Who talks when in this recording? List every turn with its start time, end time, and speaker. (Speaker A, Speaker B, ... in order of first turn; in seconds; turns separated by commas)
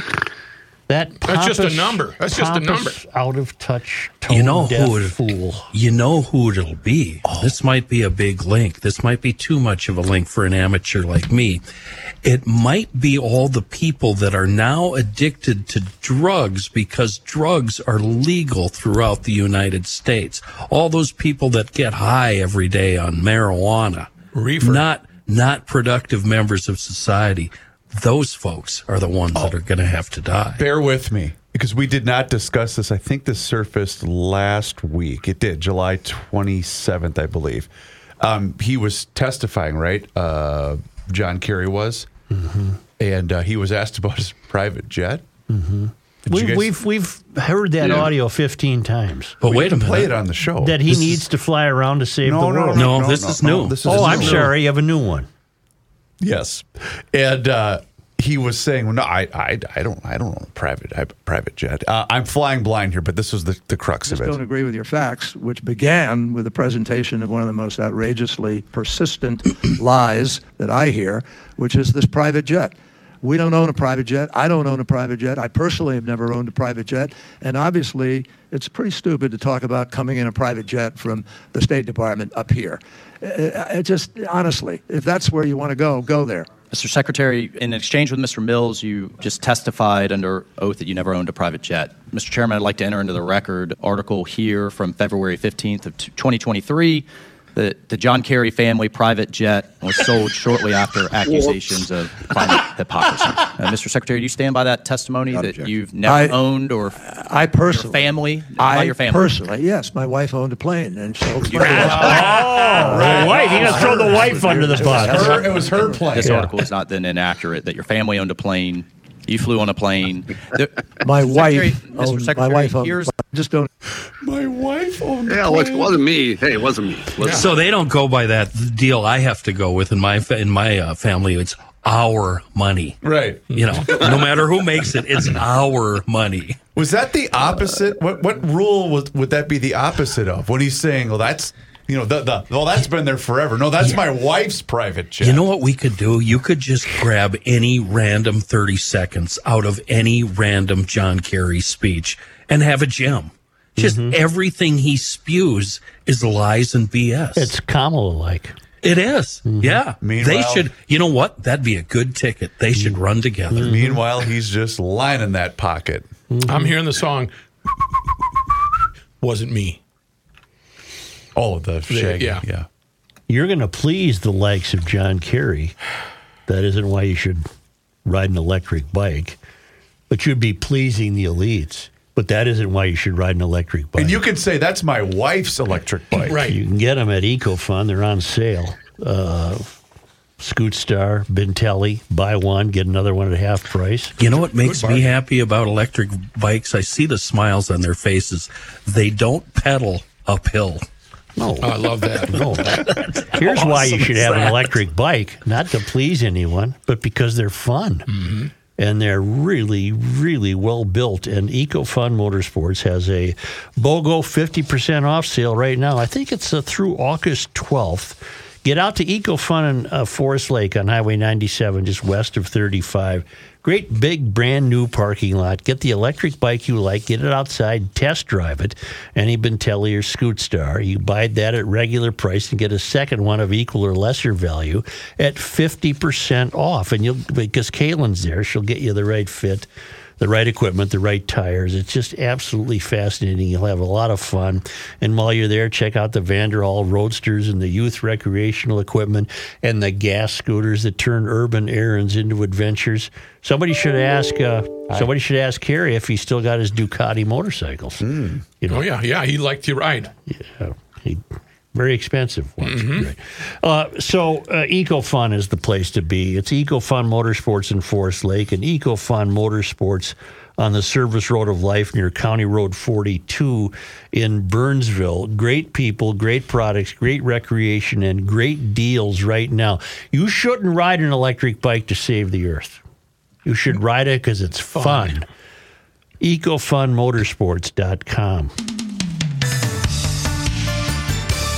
Speaker A: 0.9-5.7, Speaker B: 1.2-3.0, Speaker C: 4.3-5.2, Speaker C: 5.7-11.6, Speaker C: 12.2-24.1, Speaker B: 24.3-24.9, Speaker C: 24.6-30.6, Speaker D: 30.6-42.1, Speaker A: 42.3-42.8, Speaker D: 43.0-45.2, Speaker A: 45.5-49.4, Speaker D: 46.3-46.7, Speaker C: 49.4-50.1, Speaker D: 49.5-51.0, Speaker A: 50.6-52.9, Speaker D: 52.2-54.5, Speaker C: 52.8-54.5, Speaker A: 53.9-55.3, Speaker D: 56.2-64.4, Speaker E: 64.0-86.5, Speaker F: 86.7-107.0, Speaker E: 105.3-106.4, Speaker E: 107.0-116.0, Speaker F: 107.7-109.4, Speaker D: 111.6-114.1, Speaker A: 111.7-115.4, Speaker D: 114.9-116.5, Speaker F: 116.1-123.2, Speaker A: 116.2-116.5, Speaker E: 121.0-123.7, Speaker D: 124.2-126.0, Speaker G: 125.3-127.5, Speaker B: 127.2-127.5, Speaker C: 127.3-133.0, Speaker D: 133.0-133.4, Speaker B: 133.5-134.0, Speaker C: 133.5-136.6, Speaker D: 136.8-145.5, Speaker C: 145.2-157.5, Speaker A: 153.8-154.2, Speaker A: 157.4-158.6, Speaker C: 158.8-163.8, Speaker A: 159.5-159.8, Speaker D: 160.0-160.7, Speaker A: 163.5-164.0, Speaker D: 163.5-166.1, Speaker A: 166.3-166.8, Speaker B: 166.5-167.3, Speaker B: 169.2-169.8, Speaker D: 171.3-172.7, Speaker B: 171.9-172.4, Speaker A: 173.3-175.8, Speaker A: 176.5-177.5, Speaker A: 178.1-179.4, Speaker A: 180.1-184.2, Speaker D: 184.0-186.4, Speaker B: 186.2-186.6, Speaker A: 186.4-189.8, Speaker A: 190.4-194.2, Speaker C: 194.2-200.8, Speaker B: 194.6-195.2, Speaker A: 201.4-208.1, Speaker B: 201.6-202.8, Speaker C: 202.7-203.7, Speaker B: 203.4-204.6, Speaker B: 208.1-208.5, Speaker A: 208.8-239.7, Speaker A: 240.2-258.1, Speaker D: 258.0-258.5, Speaker A: 258.6-258.9, Speaker B: 258.7-260.1, Speaker A: 260.3-282.8, Speaker B: 262.6-263.1, Speaker A: 283.4-285.3, Speaker B: 284.7-285.2, Speaker A: 286.2-288.5